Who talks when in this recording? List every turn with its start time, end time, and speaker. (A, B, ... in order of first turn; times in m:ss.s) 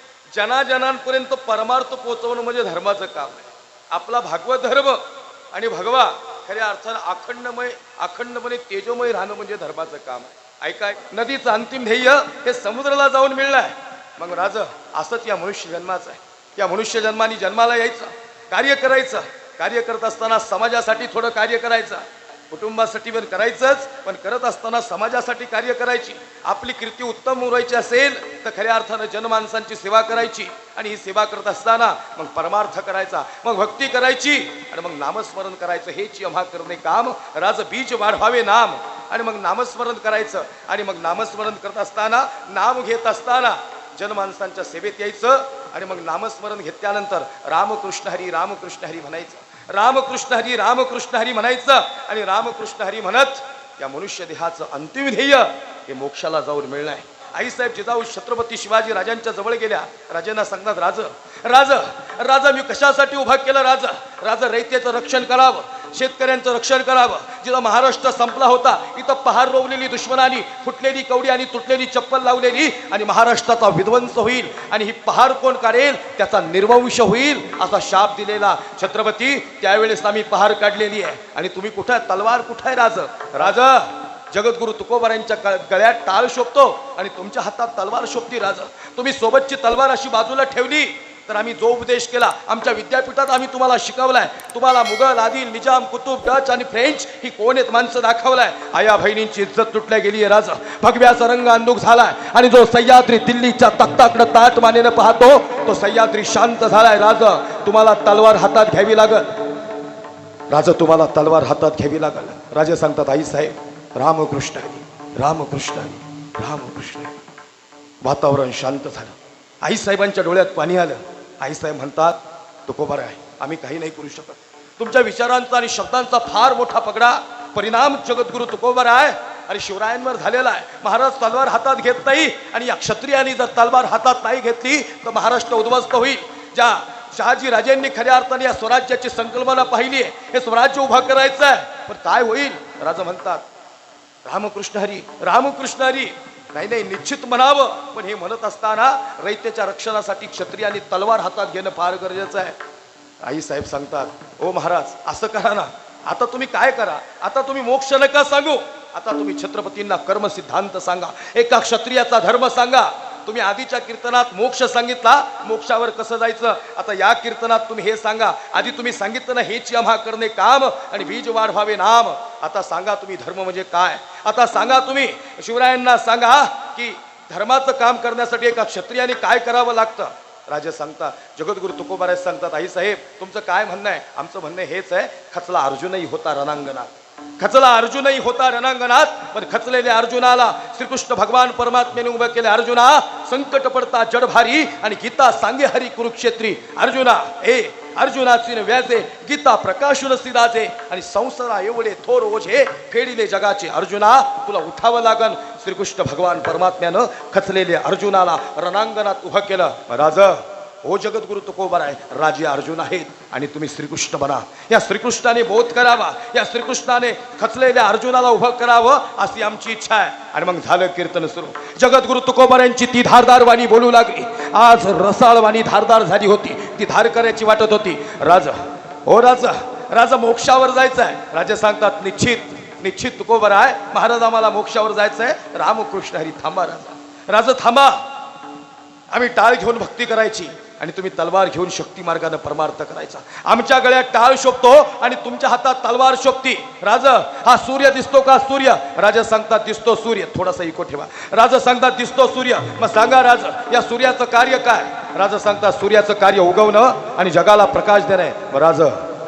0:00.3-1:49.5 A
1:50.5-1:57.2 A
1:58.0-2:23.5 A
2:24.2-2:32.6 A
2:33.2-3:58.1 A
3:59.1-4:19.1 A